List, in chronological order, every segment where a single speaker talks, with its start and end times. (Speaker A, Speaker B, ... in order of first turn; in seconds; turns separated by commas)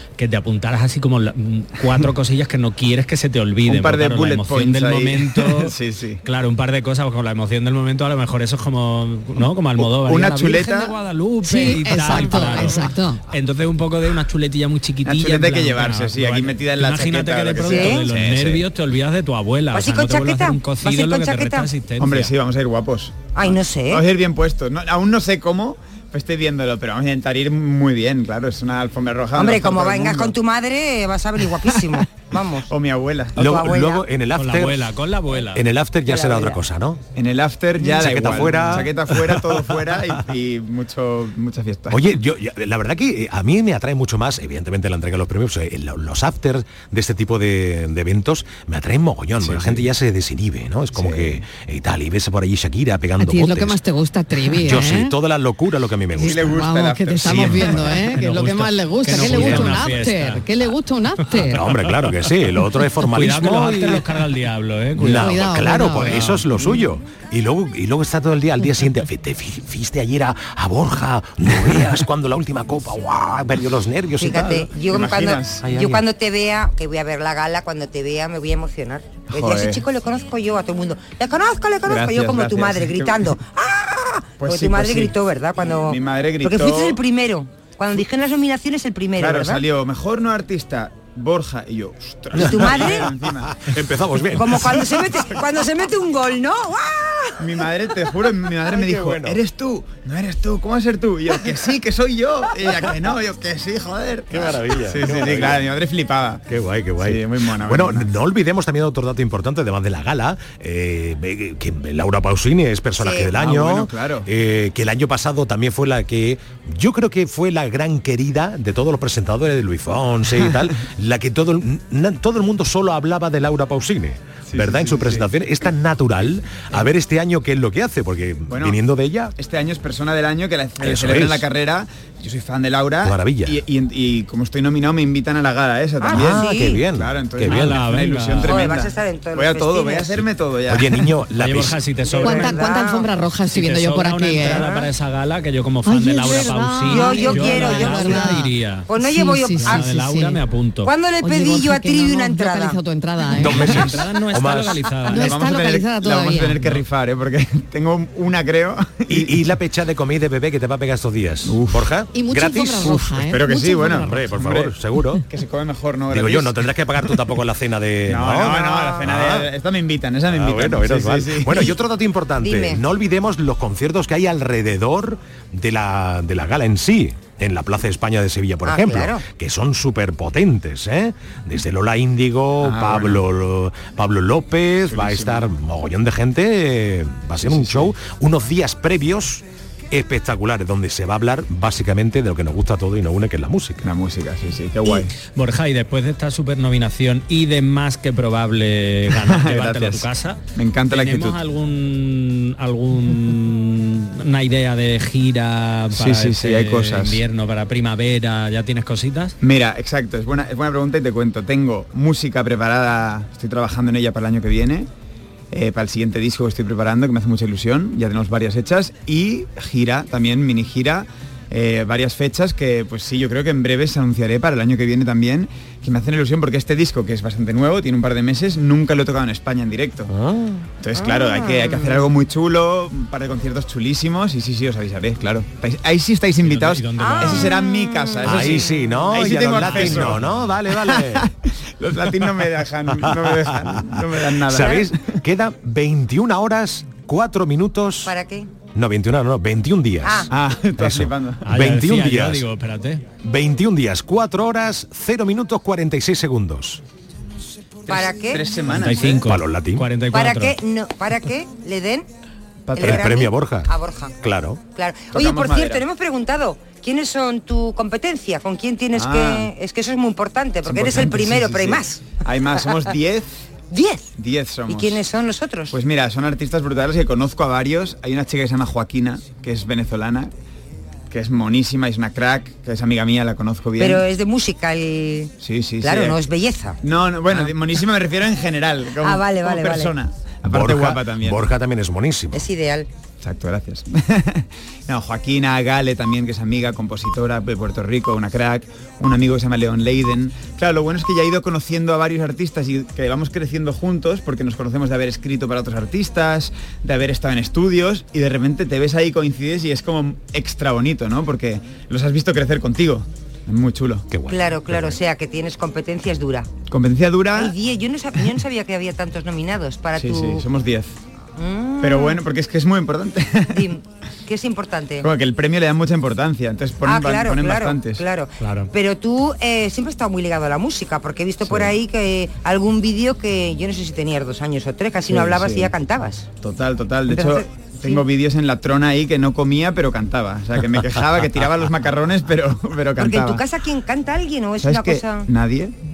Speaker A: 0.2-22.3, Speaker B: 3.6-6.2, Speaker B: 9.4-10.9, Speaker C: 11.4-13.2, Speaker B: 11.6-12.1, Speaker B: 15.0-18.6, Speaker D: 17.6-18.0, Speaker D: 19.7-21.7, Speaker B: 22.0-30.3, Speaker D: 23.3-24.0, Speaker D: 29.4-32.7, Speaker B: 32.7-33.4, Speaker D: 33.3-34.0, Speaker E: 33.4-34.9, Speaker A: 34.3-35.6, Speaker E: 35.5-37.0, Speaker D: 36.0-36.6, Speaker B: 37.1-42.0, Speaker E: 37.8-40.0, Speaker E: 41.9-53.8, Speaker B: 49.4-49.8, Speaker B: 50.9-51.4, Speaker C: 53.2-55.1, Speaker E: 54.5-56.5, Speaker B: 56.2-58.0, Speaker C: 56.2-61.6, Speaker A: 58.0-60.4, Speaker E: 59.2-59.9, Speaker E: 61.5-64.1, Speaker A: 63.0-65.3, Speaker E: 65.0-74.7, Speaker C: 65.1-66.2, Speaker D: 74.2-89.6, Speaker B: 74.8-75.7, Speaker E: 75.6-76.0, Speaker B: 79.3-79.8, Speaker B: 81.8-83.3, Speaker B: 84.4-87.0, Speaker B: 89.2-93.6, Speaker E: 92.3-95.1, Speaker D: 92.3-93.1, Speaker D: 94.3-97.7, Speaker B: 97.4-106.4, Speaker E: 98.7-99.4, Speaker E: 104.3-105.7, Speaker E: 106.5-129.3, Speaker B: 107.0-108.0, Speaker D: 113.0-113.3, Speaker B: 113.2-114.3, Speaker B: 124.5-125.3, Speaker B: 128.5-128.8, Speaker B: 129.4-141.1, Speaker E: 130.8-131.4, Speaker E: 133.0-133.6, Speaker D: 136.0-136.8, Speaker E: 136.1-137.8, Speaker A: 137.4-138.7, Speaker D: 138.4-140.2, Speaker E: 140.7-141.8, Speaker A: 141.3-142.6, Speaker B: 142.0-142.4, Speaker D: 142.1-143.1, Speaker C: 142.2-144.6, Speaker A: 143.4-148.9, Speaker D: 144.4-144.9, Speaker C: 145.8-150.4, Speaker D: 146.9-148.4, Speaker D: 148.9-149.8, Speaker A: 149.6-150.9, Speaker D: 150.8-152.8, Speaker C: 151.2-153.8, Speaker E: 153.3-154.8, Speaker A: 153.5-155.4, Speaker C: 155.1-156.6, Speaker B: 155.1-159.4, Speaker E: 159.1-163.3, Speaker B: 161.4-161.9, Speaker C: 162.1-164.3, Speaker B: 163.3-164.7, Speaker E: 164.0-165.2, Speaker B: 165.3-166.5, Speaker E: 166.1-169.5, Speaker B: 168.1-171.7, Speaker E: 170.3-193.9, Speaker D: 172.4-172.8, Speaker D: 178.6-179.2, Speaker B: 182.6-183.2, Speaker B: 184.9-185.5, Speaker B: 187.4-187.9, Speaker B: 193.8-195.1, Speaker A: 195.3-209.3, Speaker B: 199.2-201.4, Speaker B: 205.9-207.2, Speaker B: 209.4-214.9, Speaker B: 215.5-230.1, Speaker E: 230.1-230.5, Speaker B: 230.8-240.2, Speaker D: 230.9-232.1, Speaker A: 236.4-237.6, Speaker D: 237.0-238.8, Speaker E: 238.2-241.3, Speaker A: 239.5-240.1, Speaker B: 240.8-245.2, Speaker E: 242.9-248.1, Speaker D: 244.6-244.9, Speaker D: 248.0-248.5, Speaker E: 248.7-252.4, Speaker D: 250.0-250.3, Speaker B: 250.3-251.5, Speaker A: 251.4-253.1, Speaker E: 253.2-256.8, Speaker D: 257.9-258.5, Speaker B: 257.9-259.3, Speaker A: 258.7-260.6, Speaker E: 259.2-259.9, Speaker D: 260.1-262.1, Speaker B: 262.7-263.1, Speaker D: 262.7-264.1, Speaker E: 262.8-264.6, Speaker D: 264.7-272.0, Speaker B: 265.1-265.8, Speaker B: 268.9-269.5, Speaker B: 270.6-273.3, Speaker D: 273.7-274.1, Speaker B: 274.2-275.0, Speaker D: 274.7-275.8, Speaker B: 275.7-280.3, Speaker B: 281.1-284.1, Speaker D: 283.8-286.8, Speaker B: 285.4-286.2, Speaker B: 286.8-291.4, Speaker D: 289.0-289.9, Speaker E: 290.5-292.5, Speaker D: 292.3-292.9, Speaker B: 293.2-314.1, Speaker E: 314.1-314.9, Speaker D: 314.3-316.5, Speaker B: 316.7-317.6, Speaker D: 317.3-320.4, Speaker B: 319.9-320.9, Speaker D: 321.4-322.2, Speaker B: 321.8-323.6, Speaker D: 323.5-325.1, Speaker B: 325.0-328.0, Speaker D: 326.8-336.3, Speaker A: 328.4-328.7, Speaker B: 331.4-331.8, Speaker B: 335.1-335.7, Speaker B: 336.4-343.4, Speaker D: 337.1-338.0, Speaker D: 343.0-345.3, Speaker B: 344.6-345.7